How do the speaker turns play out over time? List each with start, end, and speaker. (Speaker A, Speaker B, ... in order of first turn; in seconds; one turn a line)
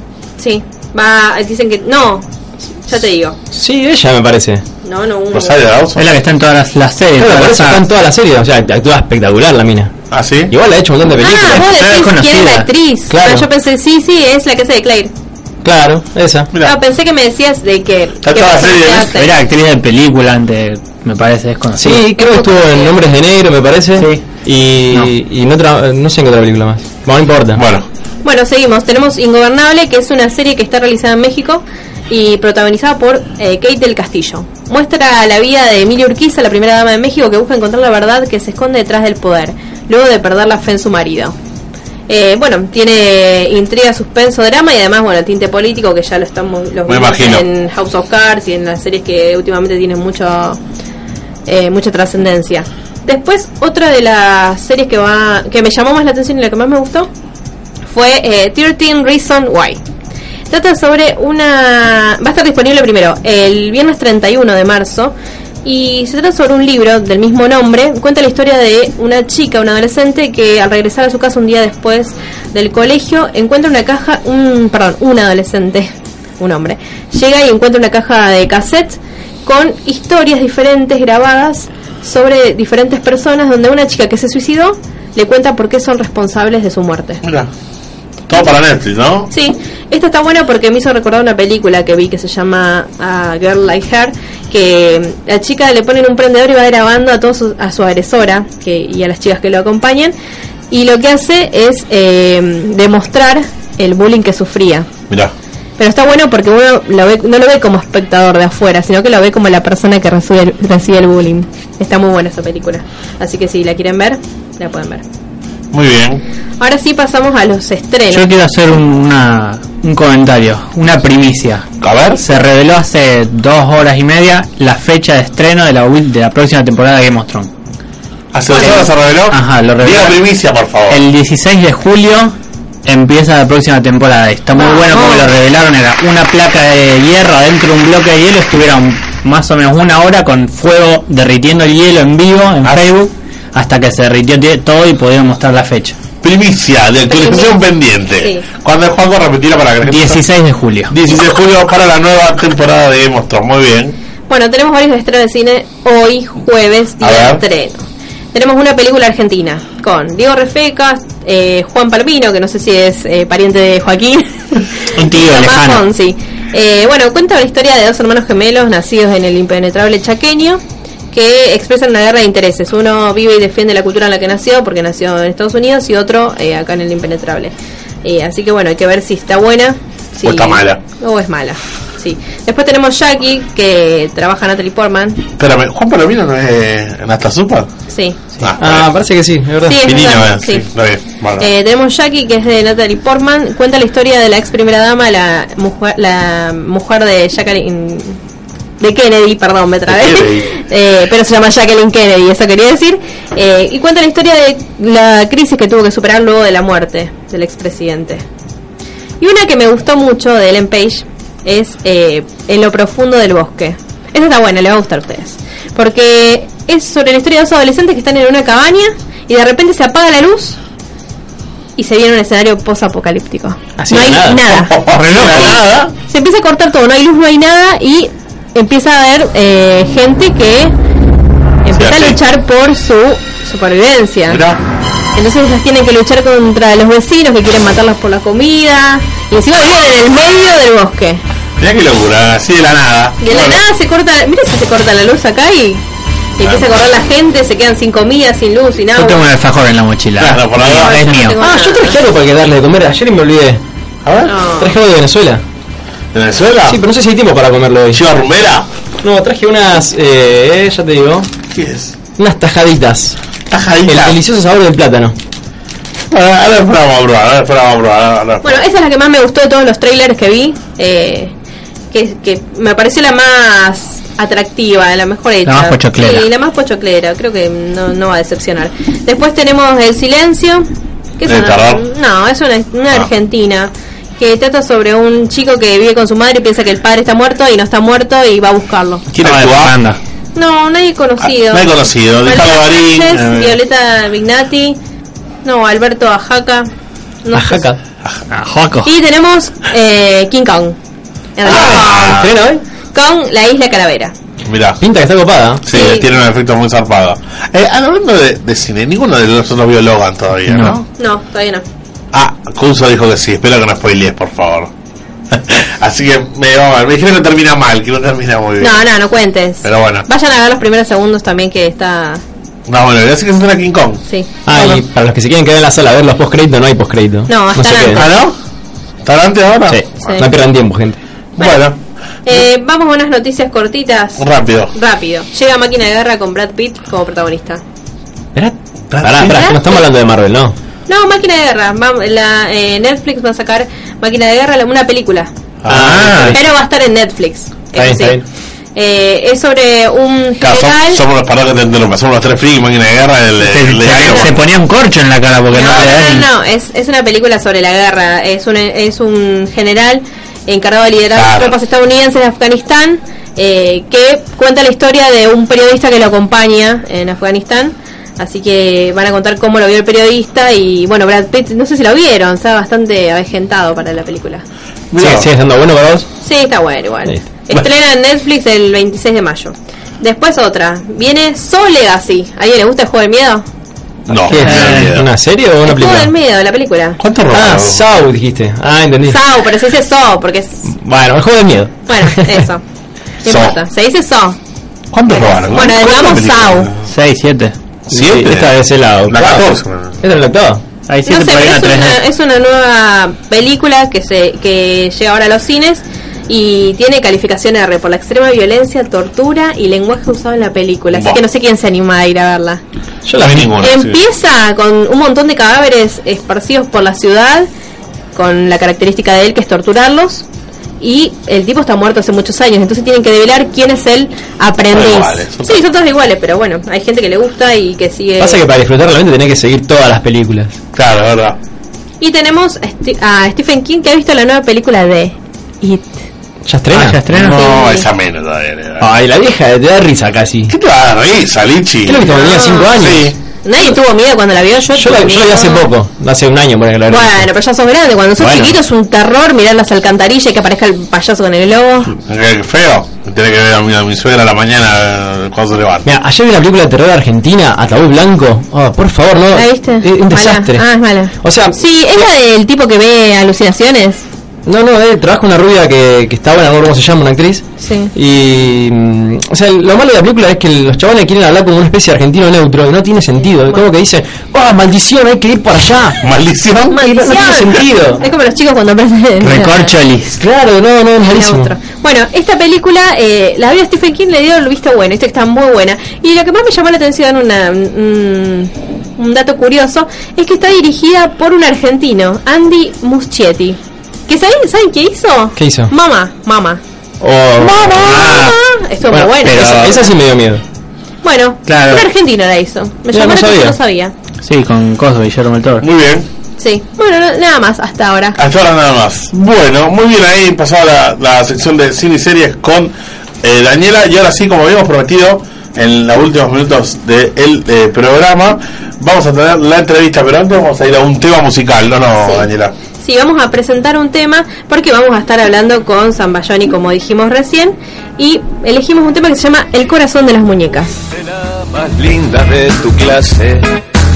Speaker A: 0.4-2.3
Speaker A: 2.9-3.4
Speaker B: 3.5-4.6
Speaker A: 4.8-5.7
Speaker C: 5.3-6.1
Speaker D: 6.0-7.8
Speaker B: 7.2-9.9
Speaker C: 10.1-10.5
Speaker B: 10.5-11.7
Speaker A: 11.2-15.1
Speaker D: 11.7-12.7
Speaker B: 13.1-13.5
Speaker B: 15.6-16.5
Speaker A: 16.6-19.3
Speaker C: 18.2-19.1
Speaker D: 19.1-22.0
Speaker B: 21.8-27.6
Speaker A: 22.1-23.0
Speaker D: 24.0-24.2
Speaker C: 27.6-27.9
Speaker A: 28.2-41.4
Speaker A: 42.1-50.6
Speaker C: 46.9-47.5
Speaker A: 51.5-57.1
Speaker A: 57.9-59.8
Speaker A: 60.5-87.2
Speaker C: 87.2-87.5
Speaker C: 88.3-89.3
Speaker A: 89.3-100.1
Speaker A: 100.7-104.9
Speaker A: 105.8-115.0
Speaker C: 115.7-116.2
Speaker A: 116.6-118.3
Speaker D: 118.1-121.7
Speaker C: 121.8-122.2
Speaker D: 122.2-127.5
Speaker C: 128.3-131.0
Speaker D: 128.6-130.2
Speaker D: 130.9-146.0
Speaker A: 134.6-135.3
Speaker C: 146.2-150.2
Speaker A: 147.1-147.6
Speaker D: 149.8-150.9
Speaker C: 150.9-154.0
Speaker A: 154.3-170.6
Speaker C: 157.0-157.4
Speaker D: 164.9-165.8
Speaker A: 171.1-177.5
Speaker A: 178.0-185.2
Speaker C: 180.2-180.8
Speaker C: 185.4-187.7
Speaker A: 187.9-188.2
Speaker C: 188.4-188.9
Speaker B: 188.6-190.0
Speaker A: 189.7-190.7
Speaker C: 189.8-191.5
Speaker A: 191.4-198.2
Speaker A: 198.8-208.2
Speaker C: 199.9-200.5
Speaker A: 209.2-220.6
Speaker A: 221.8-224.8
Speaker B: 223.8-225.8
Speaker C: 224.7-225.7
Speaker D: 224.9-225.8
Speaker A: 226.1-230.7
Speaker A: 231.7-234.4
Speaker C: 231.7-232.2
Speaker C: 234.3-234.6
Speaker A: 235.2-241.2
Speaker C: 241.6-243.6
Speaker A: 243.2-245.8
Speaker A: 246.4-249.2
Speaker C: 246.4-246.7
Speaker D: 248.9-251.4
Speaker C: 250.2-251.0
Speaker A: 250.8-252.0
Speaker B: 251.4-253.6
Speaker C: 254.1-254.3
Speaker A: 254.3-254.8
Speaker B: 254.6-255.4
Speaker C: 256.1-256.8
Speaker B: 256.7-258.0
Speaker C: 257.9-258.7
Speaker B: 259.0-261.3
Speaker C: 261.5-261.9
Speaker B: 262.2-263.2
Speaker C: 263.5-264.2
Speaker B: 263.9-265.1
Speaker C: 266.1-268.6
Speaker A: 268.4-271.3
Speaker A: 271.9-280.7
Speaker D: 275.4-276.3
Speaker A: 281.2-289.1
Speaker C: 281.2-281.9
Speaker D: 289.1-290.0
Speaker C: 289.2-289.8
Speaker A: 290.4-294.8
Speaker C: 291.2-293.2
Speaker D: 293.1-293.6
Speaker A: 295.4-296.7
Speaker A: 297.2-297.7
Speaker B: 297.3-297.8
Speaker D: 298.3-298.9
Speaker A: 298.9-300.8
Speaker A: 301.4-302.3
Speaker B: 301.5-302.6
Speaker C: 301.5-302.1
Speaker A: 302.9-304.1
Speaker C: 304.4-304.8
Speaker B: 304.8-305.6
Speaker C: 305.6-310.8
Speaker A: 305.7-306.1
Speaker A: 311.0-311.6
Speaker C: 312.1-314.7
Speaker C: 315.3-318.9
Speaker A: 318.6-322.2
Speaker C: 319.6-320.1
Speaker C: 322.7-324.0
Speaker A: 324.1-324.8
Speaker B: 324.4-328.0
Speaker A: 327.3-328.1
Speaker C: 327.9-328.4
Speaker C: 329.1-330.2
Speaker B: 329.7-331.0
Speaker C: 331.4-331.8
Speaker A: 332.3-337.6
Speaker C: 334.2-334.7
Speaker B: 338.4-340.6
Speaker C: 338.9-339.6
Speaker A: 339.2-339.8
Speaker A: 340.9-345.3
Speaker C: 345.6-346.4
Speaker B: 345.7-346.4
Speaker A: 346.3-348.2
Speaker B: 347.7-348.2
Speaker A: 348.8-351.0
Speaker C: 350.4-354.4
Speaker D: 353.4-356.3
Speaker A: 355.5-374.4
Speaker C: 355.6-356.0
Speaker C: 361.1-361.6
Speaker C: 374.9-375.3
Speaker B: 375.0-376.1
Speaker A: 376.2-383.4
Speaker C: 384.1-385.1
Speaker B: 384.3-386.1
Speaker D: 384.5-384.9
Speaker A: 385.6-387.0
Speaker C: 387.0-387.8
Speaker B: 387.3-389.2
Speaker A: 389.1-390.6
Speaker B: 390.6-392.2
Speaker A: 391.9-392.6
Speaker A: 393.2-394.4
Speaker C: 393.2-393.6
Speaker C: 394.9-396.8
Speaker A: 395.5-396.7
Speaker D: 396.9-397.5
Speaker C: 397.9-400.0
Speaker B: 397.9-400.6
Speaker D: 400.9-402.0
Speaker A: 401.1-412.6
Speaker C: 410.9-411.2
Speaker B: 413.1-413.5
Speaker C: 413.2-414.0
Speaker A: 413.5-417.5
Speaker A: 418.1-420.3
Speaker A: 420.8-428.4
Speaker C: 424.7-425.6
Speaker B: 428.2-430.6
Speaker C: 430.7-431.4
Speaker A: 432.0-436.0
Speaker B: 436.5-437.0
Speaker D: 436.7-437.4
Speaker C: 437.1-438.9
Speaker A: 437.2-437.9
Speaker B: 438.8-440.5
Speaker C: 440.5-442.2
Speaker B: 441.9-443.1
Speaker A: 442.1-442.9
Speaker C: 442.7-443.2
Speaker A: 443.4-445.7
Speaker B: 444.8-447.3
Speaker A: 446.9-451.9
Speaker B: 448.2-448.6
Speaker C: 452.1-455.9
Speaker B: 455.9-461.6
Speaker A: 459.3-464.0
Speaker B: 464.5-476.0
Speaker A: 467.6-467.9
Speaker C: 476.0-476.8
Speaker A: 476.7-479.7
Speaker B: 476.8-478.0
Speaker D: 479.2-480.2
Speaker B: 480.2-481.5
Speaker A: 481.1-496.6
Speaker B: 495.4-495.7
Speaker B: 497.0-498.2
Speaker A: 497.4-499.9
Speaker D: 497.9-498.4
Speaker B: 498.9-500.4
Speaker D: 499.2-499.7
Speaker A: 501.0-503.9
Speaker D: 501.5-501.9
Speaker B: 502.9-503.6
Speaker D: 504.2-505.6
Speaker C: 505.6-506.1
Speaker A: 506.4-508.2
Speaker C: 508.2-522.5
Speaker A: 522.0-522.3
Speaker A: 522.8-530.8
Speaker E: 530.9-533.5